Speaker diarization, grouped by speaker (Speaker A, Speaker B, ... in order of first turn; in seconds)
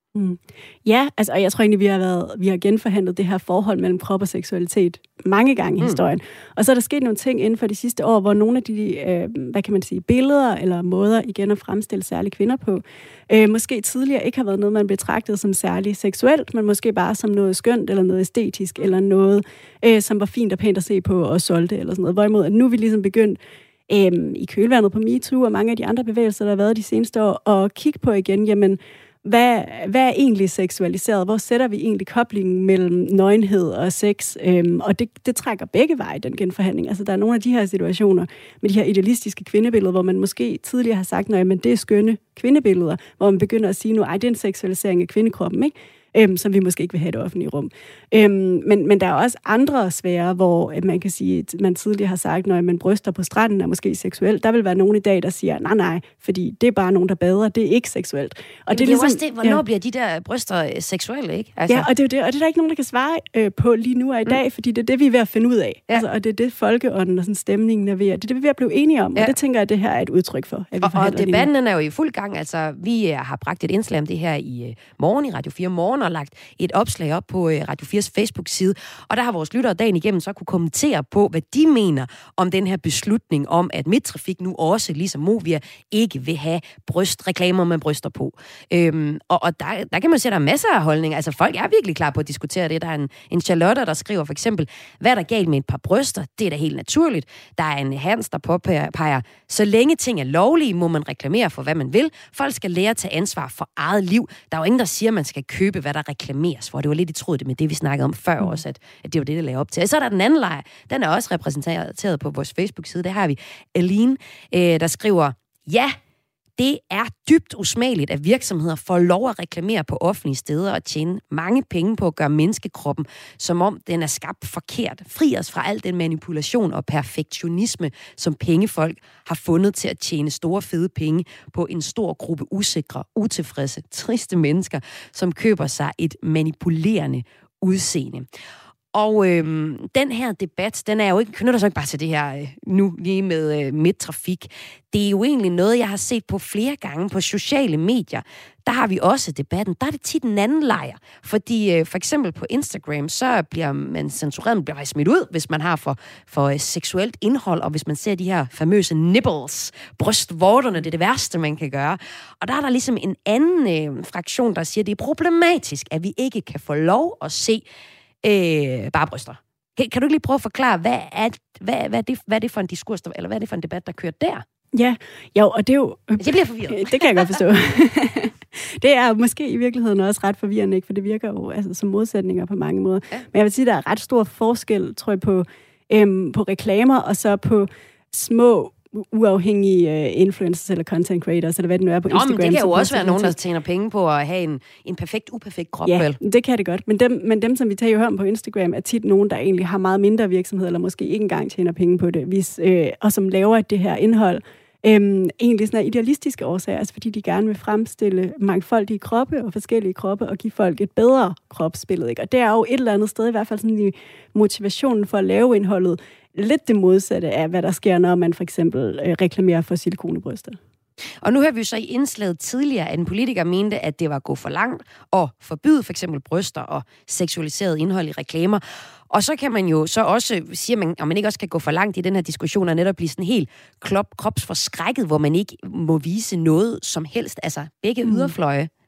Speaker A: 0.1-59.6, 61.7-71.5, 174.7-193.3, 195.9-220.6, 238.0-238.3
Speaker B: 58.7-61.9, 70.8-116.0, 116.6-138.3, 138.9-167.6, 168.2-174.4, 176.2-177.4, 192.1-196.2, 221.2-238.7